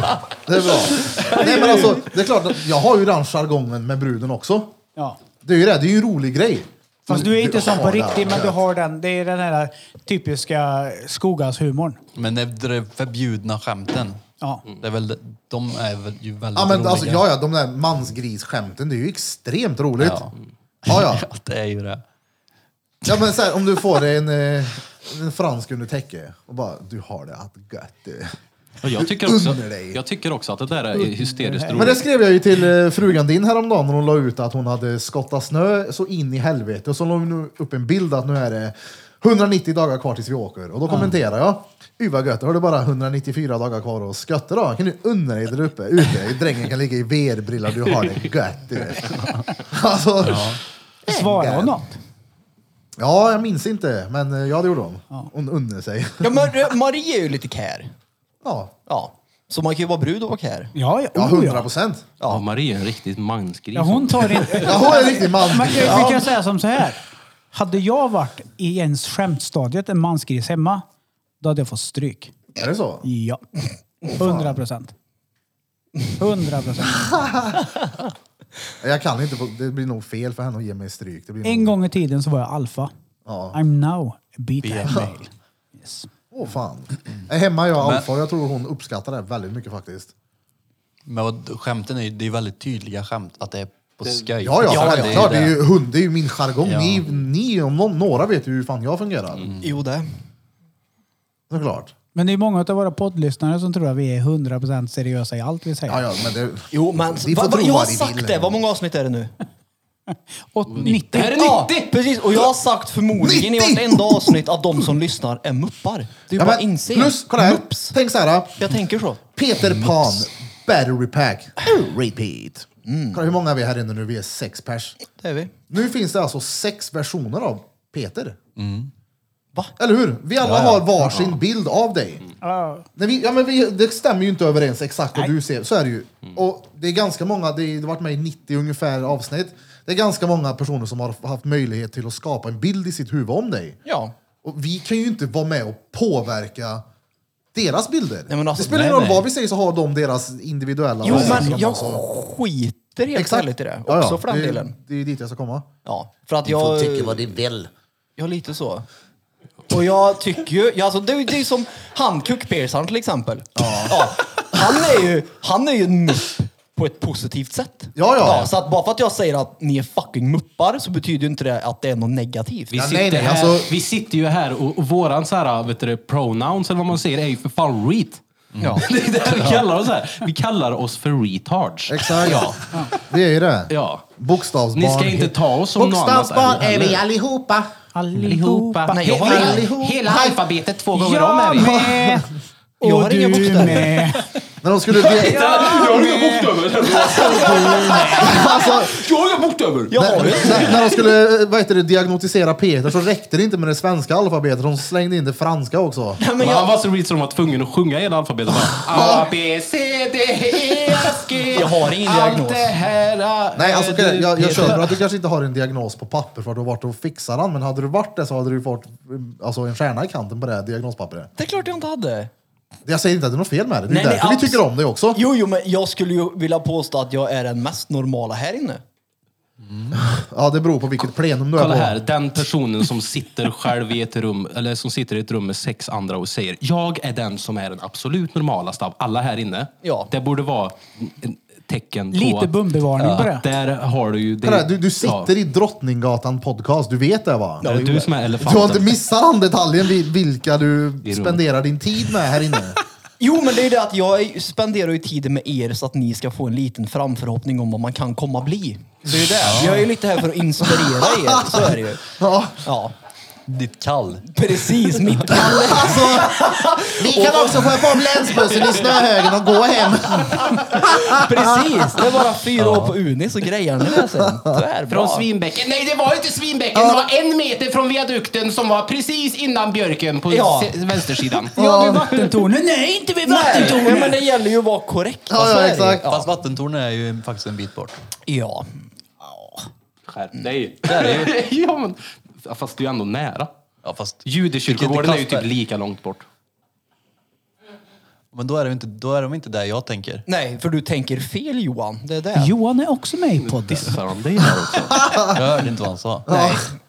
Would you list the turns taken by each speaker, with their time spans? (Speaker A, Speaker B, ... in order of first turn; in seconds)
Speaker A: 0.4-4.7, 5.4-8.6, 16.5-20.2, 20.9-21.2, 23.1-28.4, 28.9-30.0, 31.7-51.8, 53.0-56.5, 58.4-58.7, 61.1-62.1, 64.6-66.3, 72.5-73.0, 74.2-74.5, 76.9-77.6, 78.8-81.8, 83.2-83.6, 86.3-90.1, 94.4-99.5, 101.5-101.9, 105.9-108.6, 113.1-114.4, 116.3-118.7, 119.3-125.0, 125.7-128.4, 129.8-132.2, 133.0-143.8, 144.4-146.8, 147.5-152.0, 153.1-155.7, 156.4-157.7, 163.6-164.1, 167.9-168.5, 172.7-173.7, 181.9-187.7, 189.0-190.4, 191.5-192.3, 194.6-195.7, 198.1-199.0, 199.9-206.2, 208.9-209.3, 213.5-221.3, 222.8-225.2, 229.9-232.0, 244.4-247.7, 248.4-252.8, 260.7-262.6, 265.5-271.7, 276.7-277.0, 281.6-282.2, 285.3-286.0, 305.0-305.3, 306.3-306.6
Speaker B: 1.4-1.8, 7.1-12.0, 30.9-31.9, 51.0-52.0, 60.7-61.7, 63.7-67.0, 67.5-70.8, 71.4-72.3, 73.0-73.4, 74.0-74.9, 76.2-77.2, 81.4-82.9, 83.5-86.1, 102.1-106.0, 110.5-111.4, 132.4-132.8, 151.2-151.6, 187.9-189.1, 190.9-192.3, 192.8-194.3, 195.3-196.5, 197.2-198.4, 242.1-243.4, 281.6-284.1, 302.4-304.0
Speaker C: 12.1-14.2, 14.7-17.3, 20.0-20.3, 20.9-22.0, 50.2-50.6, 84.6-85.0, 87.8-88.0, 91.0-95.6, 96.6-97.1, 99.5-99.7, 119.7-120.1, 128.6-128.9, 130.4-131.3, 148.7-149.2, 178.5-178.8, 229.6-230.0, 243.0-243.3, 259.4-259.9, 263.5-264.2, 265.0-265.4, 272.5-273.0, 286.0-287.9, 290.8-291.3, 293.8-295.5, 298.3-300.2, 305.3-306.5
Speaker D: 28.8-32.0, 62.3-64.7, 110.7-112.0, 172.7-178.2, 178.8-183.1, 183.7-184.1, 184.7-187.1, 188.2-191.8, 194.9-200.9, 206.4-214.9, 231.6-242.5, 243.3-245.3, 247.6-249.0, 251.0-251.4, 274.9-281.5, 283.6-284.0, 290.1-293.5, 294.2-296.2, 303.4-305.2
Speaker E: 56.2-57.9, 58.9-60.7, 94.7-95.4, 99.6-100.1, 106.7-109.3, 111.2-117.9, 118.6-119.2, 122.8-123.2, 125.2-125.5, 143.8-144.1, 148.3-149.2, 151.0-154.7, 155.8-157.3, 158.2-158.8, 159.7-172.7, 178.6-178.8, 188.9-189.7, 192.8-194.0, 197.1-198.0, 199.9-200.8, 206.2-206.8, 211.5-212.8, 214.4-214.8, 221.3-222.3, 223.9-224.6, 225.1-228.8, 239.8-240.1, 247.6-248.1, 253.2-262.1, 262.6-262.9, 264.3-268.5, 270.8-275.3, 280.3-281.2, 283.2-286.3, 288.3-288.7, 300.2-302.5, 306.3-306.7